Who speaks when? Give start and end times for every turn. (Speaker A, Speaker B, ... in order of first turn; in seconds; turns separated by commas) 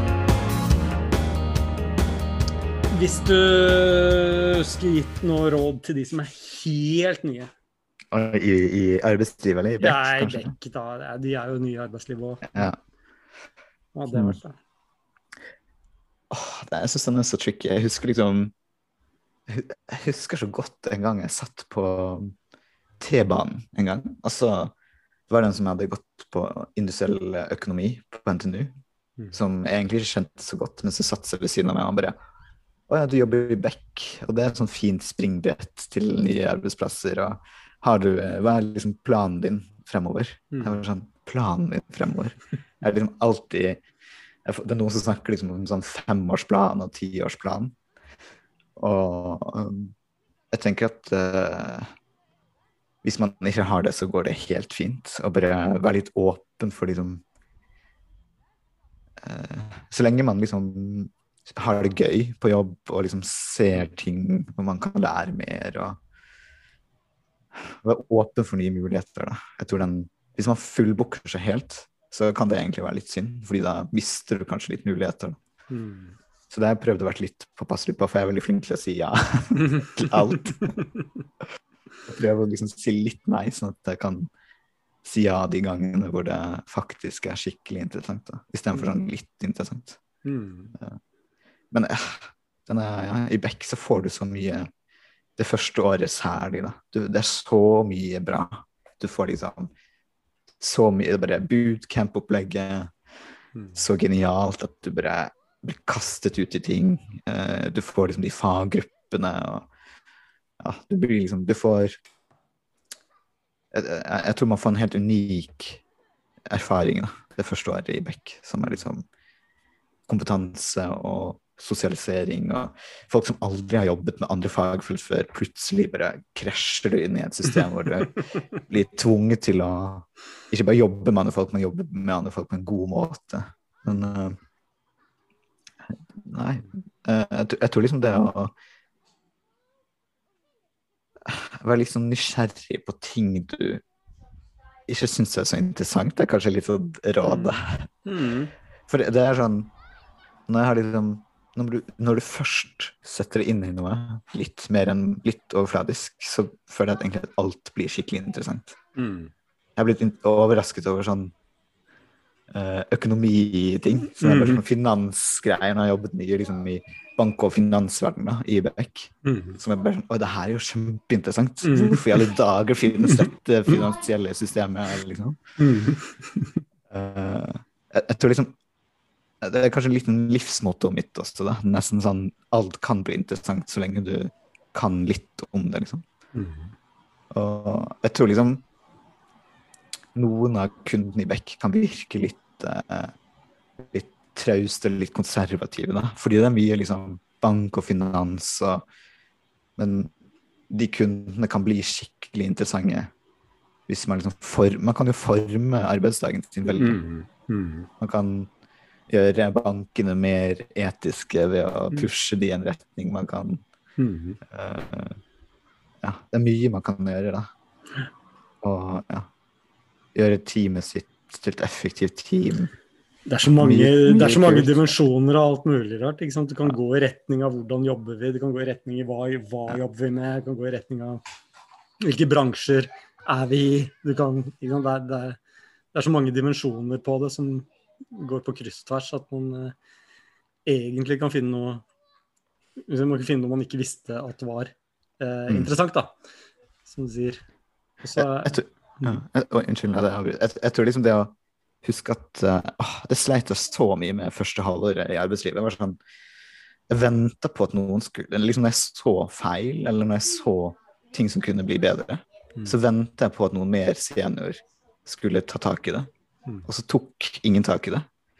Speaker A: 2.9-7.5, Speaker B: 8.1-10.5, Speaker A: 9.8-12.7, Speaker B: 12.5-12.8, Speaker A: 13.9-14.6, Speaker B: 16.3-18.5, Speaker B: 19.5-22.4, Speaker B: 23.0-24.7, Speaker B: 25.3-28.7, Speaker B: 29.3-32.1, Speaker B: 32.9-43.8, Speaker A: 40.5-40.8, Speaker B: 44.5-47.7, Speaker B: 48.8-49.9, Speaker B: 50.5-51.9, Speaker B: 53.0-57.2, Speaker B: 59.2-66.0, Speaker B: 67.5-75.4, Speaker A: 75.7-76.2, Speaker B: 76.5-80.8, Speaker B: 82.1-84.3, Speaker B: 85.0-90.0, Speaker A: 90.2-90.7, Speaker B: 91.7-94.7, Speaker B: 95.4-99.7, Speaker B: 100.6-102.9, Speaker B: 103.7-109.7, Speaker B: 110.6-111.9, Speaker B: 113.7-115.8, Speaker B: 116.5-119.0, Speaker B: 120.1-134.3, Speaker B: 136.2-138.5, Speaker B: 141.2-143.8, Speaker B: 144.9-147.9, Speaker A: 147.2-148.5, Speaker B: 148.9-149.7, Speaker B: 150.5-158.8, Speaker A: 159.0-159.3, Speaker B: 159.8-161.3, Speaker B: 162.5-175.4, Speaker A: 164.2-164.6, Speaker A: 169.2-169.6, Speaker A: 171.6-172.2, Speaker A: 175.6-176.6, Speaker B: 176.9-178.6, Speaker B: 179.4-186.0, Speaker A: 186.3-186.7, Speaker B: 187.3-188.6, Speaker B: 190.1-193.1, Speaker B: 193.8-198.8, Speaker B: 199.8-200.1, Speaker B: 200.7-203.1, Speaker B: 203.9-207.0, Speaker A: 206.7-207.9, Speaker B: 208.0-208.5, Speaker B: 209.1-213.6, Speaker A: 214.0-214.4, Speaker B: 214.5-215.2, Speaker B: 216.0-217.5, Speaker B: 218.6-219.3, Speaker B: 220.1-222.7, Speaker A: 223.3-231.2, Speaker B: 223.5-224.9, Speaker A: 232.0-235.4, Speaker A: 235.9-239.8, Speaker A: 240.7-241.8, Speaker A: 242.9-246.2, Speaker A: 246.8-247.4, Speaker A: 248.0-249.2, Speaker B: 248.2-256.0, Speaker B: 256.9-266.1, Speaker B: 266.6-268.1